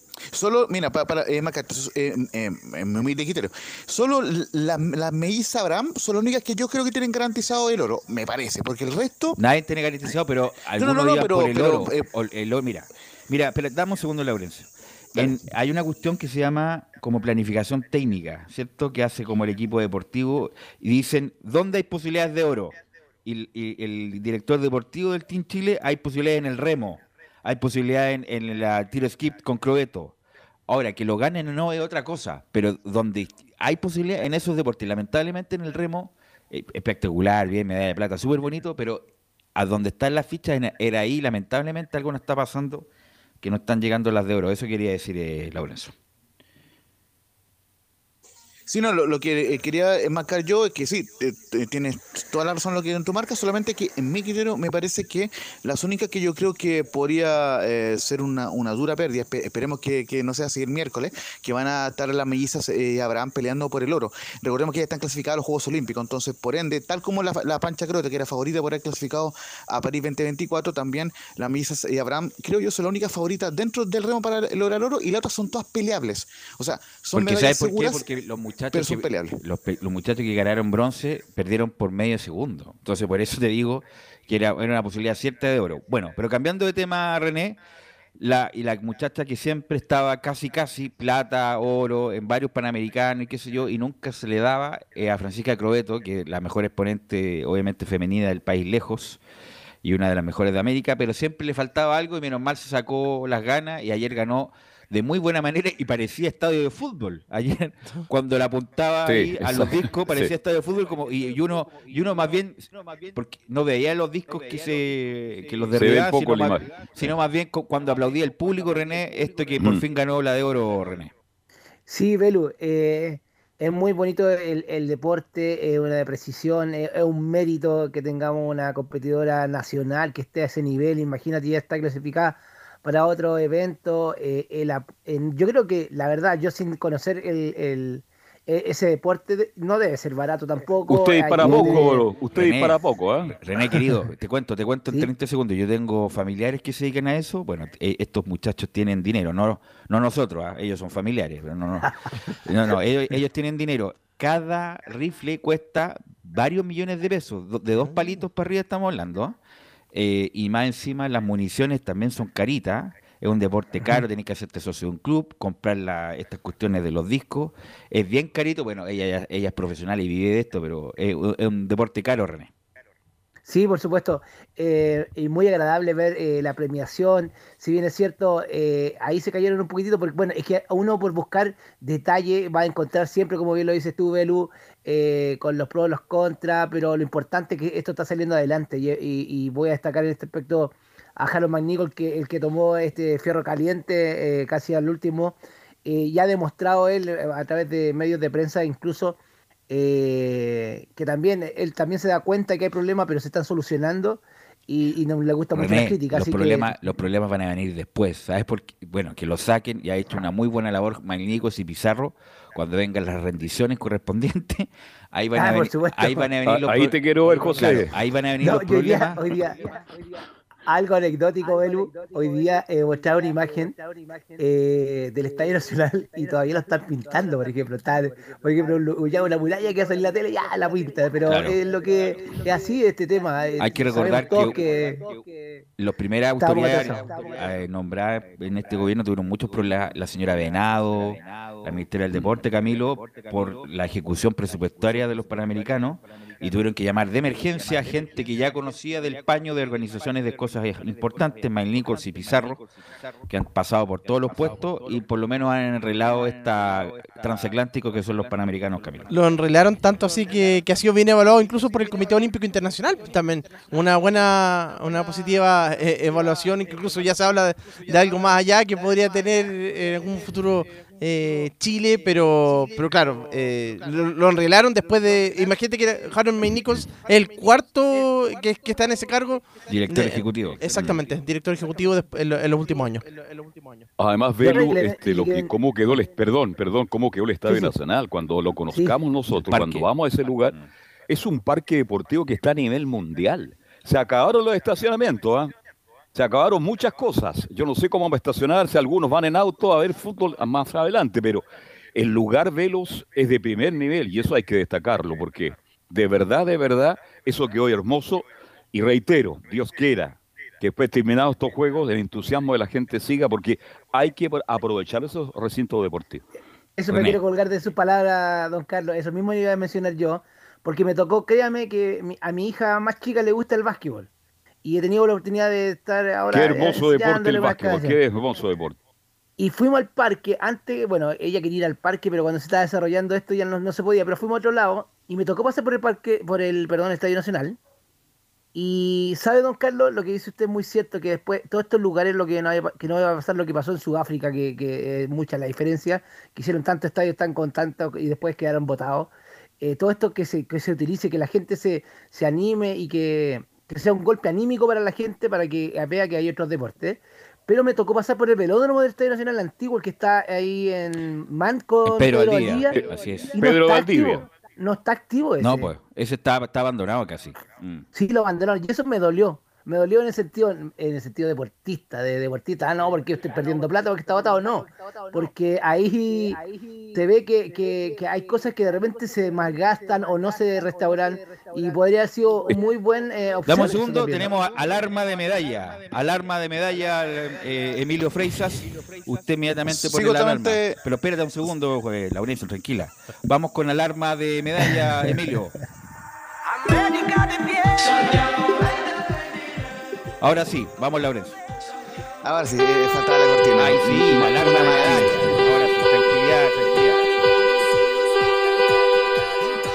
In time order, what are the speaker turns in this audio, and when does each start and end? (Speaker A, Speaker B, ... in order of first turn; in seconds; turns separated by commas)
Speaker A: 0.3-9.4, Speaker B: 9.4-30.2, Speaker A: 10.8-12.0, Speaker B: 30.7-39.0, Speaker B: 39.6-42.9, Speaker B: 43.4-45.9, Speaker A: 48.7-78.1, Speaker B: 77.1-87.6, Speaker A: 78.7-79.4, Speaker B: 88.2-99.2, Speaker B: 99.8-121.1, Speaker C: 109.1-110.3, Speaker C: 115.8-117.1, Speaker D: 121.9-142.0, Speaker C: 140.9-143.3, Speaker B: 141.4-159.4, Speaker B: 159.9-172.5, Speaker D: 173.5-199.2, Speaker D: 199.7-206.7, Speaker B: 205.6-219.5, Speaker D: 215.3-216.3, Speaker C: 216.4-217.9, Speaker D: 218.4-219.7, Speaker D: 220.7-223.8, Speaker D: 224.4-235.1, Speaker B: 231.3-231.6, Speaker B: 233.6-234.6, Speaker B: 235.8-252.6, Speaker D: 236.4-237.1, Speaker B: 253.3-259.1, Speaker E: 259.1-283.1, Speaker B: 279.7-281.0, Speaker C: 284.0-290.6, Speaker D: 284.4-285.5, Speaker D: 287.5-287.7, Speaker B: 289.5-289.9, Speaker C: 291.1-295.5, Speaker C: 296.1-316.2, Speaker D: 316.8-324.1, Speaker B: 316.9-317.2, Speaker D: 324.6-328.0, Speaker C: 326.3-328.8, Speaker D: 329.4-337.6, Speaker D: 338.6-349.1, Speaker D: 349.6-362.7, Speaker B: 361.9-363.4, Speaker D: 363.4-365.7, Speaker C: 363.4-364.2, Speaker B: 365.4-367.9, Speaker D: 367.9-376.4, Speaker D: 376.9-384.3, Speaker B: 383.5-395.6, Speaker A: 389.7-390.8, Speaker B: 400.2-401.4, Speaker A: 402.2-405.3, Speaker B: 403.6-407.1